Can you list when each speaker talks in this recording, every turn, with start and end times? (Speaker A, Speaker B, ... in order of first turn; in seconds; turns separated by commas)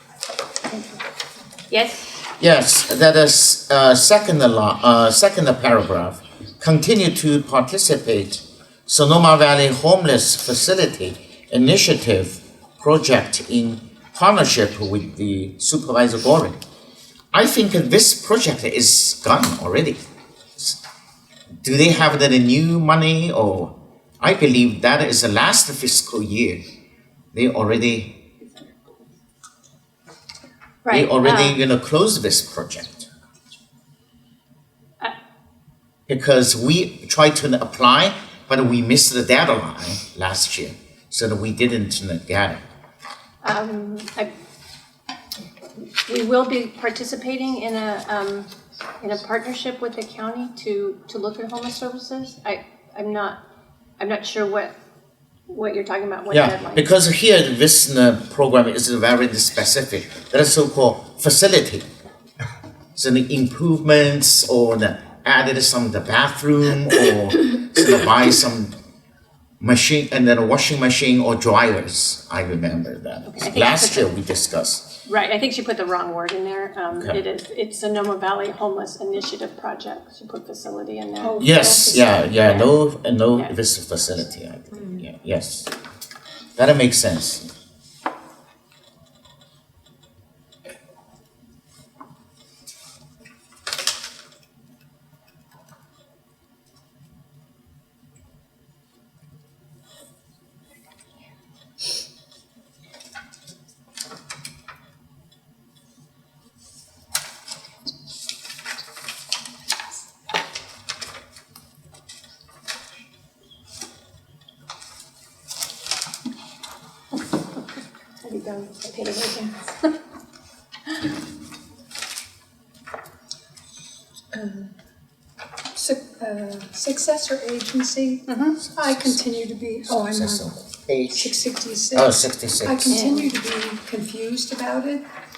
Speaker A: 1.7-2.1, Speaker B: 2.4-16.6, Speaker B: 17.3-20.0, Speaker B: 21.6-26.6, Speaker B: 27.3-28.1, Speaker A: 30.8-31.6, Speaker B: 30.9-33.0, Speaker B: 36.1-42.6, Speaker A: 43.4-44.3, Speaker A: 46.1-53.4, Speaker A: 54.0-54.7, Speaker A: 55.5-56.9, Speaker B: 56.3-61.9, Speaker B: 63.0-68.7, Speaker B: 69.6-74.8, Speaker A: 73.2-74.1, Speaker A: 75.0-81.4, Speaker B: 76.9-77.2, Speaker C: 81.2-82.3, Speaker B: 81.4-85.7, Speaker A: 82.4-82.7, Speaker B: 86.6-87.5, Speaker A: 118.2-119.5, Speaker C: 124.3-124.7, Speaker C: 125.7-130.5, Speaker A: 128.3-128.6, Speaker B: 128.6-129.2, Speaker B: 129.8-131.3, Speaker C: 131.1-135.0, Speaker B: 131.9-133.0, Speaker A: 132.9-133.3